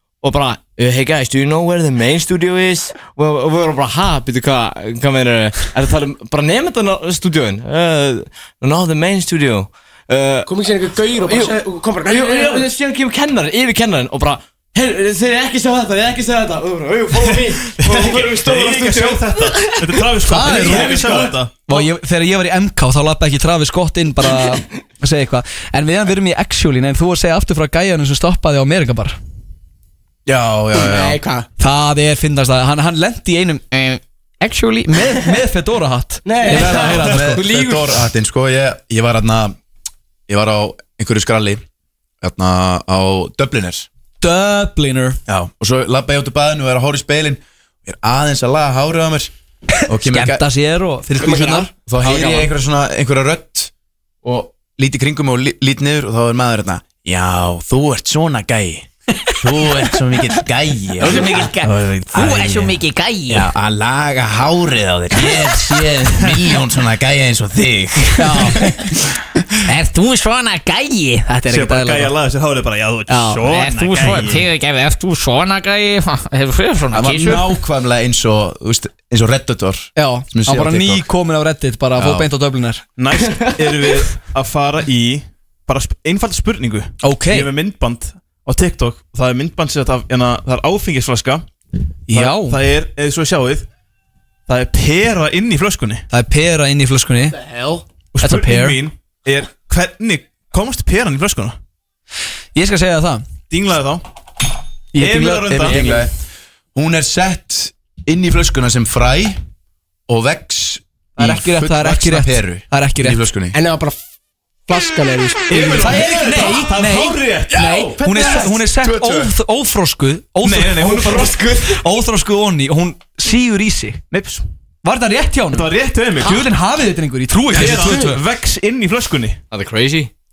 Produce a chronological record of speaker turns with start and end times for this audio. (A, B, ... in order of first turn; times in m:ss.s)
0:00.2-0:10.5 A
0:10.4-0:12.7 B
0:11.1-0:21.8 A
0:17.2-0:21.5 C
0:20.3-0:29.2 D
0:30.2-0:31.2 E
0:30.7-0:31.4 B
0:31.6-0:33.7 D
0:33.7-0:35.0 F
0:34.9-0:37.5 D
0:36.2-0:37.0 B
0:36.5-0:37.9 A
0:36.8-0:39.6 E
0:40.3-0:41.6 E
0:42.2-0:43.9 E
0:44.2-0:45.2 D
0:45.3-0:49.3 E
0:49.9-0:50.4 E
0:50.0-0:51.7 D
0:51.2-0:51.7 B
0:51.9-0:53.7 E
0:54.2-1:02.8 E
1:01.0-1:03.5 F
1:01.1-1:01.4 D
1:03.3-1:08.7 E
1:08.2-1:08.8 D
1:09.7-1:11.4 F
1:11.3-1:12.1 D
1:11.5-1:14.4 C
1:13.1-1:13.4 D
1:13.4-1:17.5 F
1:16.9-1:21.1 E
1:20.0-1:22.8 D
1:22.0-1:22.3 E
1:23.0-1:31.4 C
1:27.0-1:27.5 D
1:32.1-1:32.6 D
1:32.1-1:33.6 C
1:34.5-1:36.0 C
1:36.1-1:37.4 D
1:37.4-1:37.8 B
1:38.1-1:41.6 C
1:38.2-1:38.8 D
1:42.5-1:43.2 D
1:43.5-1:44.0 C
1:44.9-1:45.8 D
1:44.9-1:45.8 C
1:45.5-1:46.1 E
1:46.7-1:49.4 E
1:50.1-1:53.6 E
1:51.2-1:53.2 D
1:53.5-1:54.0 B
1:54.7-1:55.9 B
1:55.5-1:57.9 C
1:55.7-1:57.2 D
1:57.5-1:58.6 B
1:57.7-1:59.3 E
1:58.0-2:04.0 D
2:00.4-2:01.4 C
2:00.8-2:01.8 A
2:04.1-2:04.4 C
2:04.8-2:08.2 D
2:05.5-2:06.5 C
2:07.5-2:09.4 C
2:09.5-2:10.1 A